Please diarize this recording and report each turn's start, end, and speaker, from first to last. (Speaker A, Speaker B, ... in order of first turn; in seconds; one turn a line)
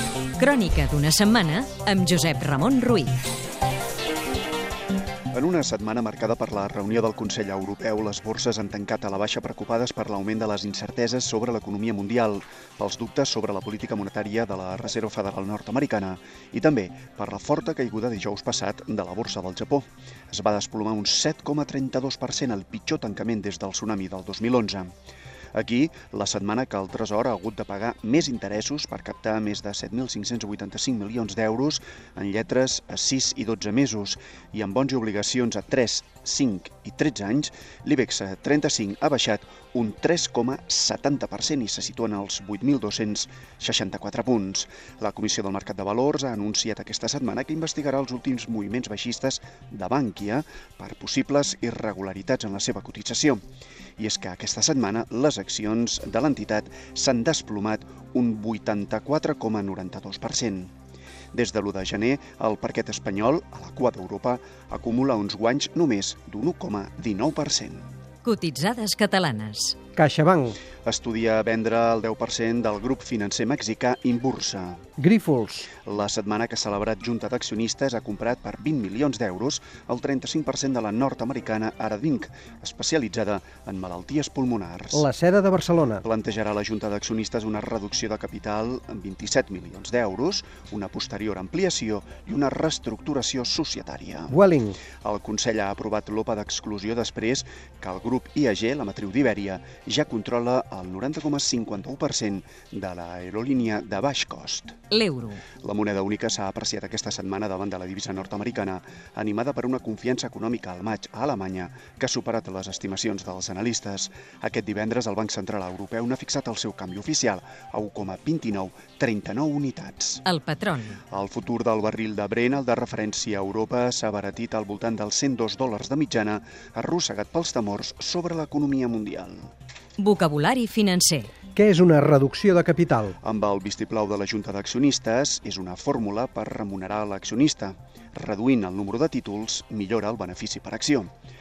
Speaker A: 0.4-3.2
Speaker B: 5.3-24.9
Speaker B: 25.5-53.4
Speaker B: 54.0-60.7
Speaker B: 61.3-67.8
Speaker A: 68.2-69.8
Speaker C: 70.0-70.6
Speaker B: 70.8-74.8
Speaker C: 75.0-75.7
Speaker B: 75.8-85.1
Speaker C: 84.9-86.0
Speaker B: 86.0-94.4
Speaker C: 94.3-94.8
Speaker B: 94.9-104.8
Speaker A: 104.9-105.4
Speaker B: 105.6-120.2
Speaker A: 120.2-121.0
Speaker B: 121.1-129.5
Speaker A: 130.0-131.3
Speaker C: 131.6-133.1
Speaker B: 133.2-141.1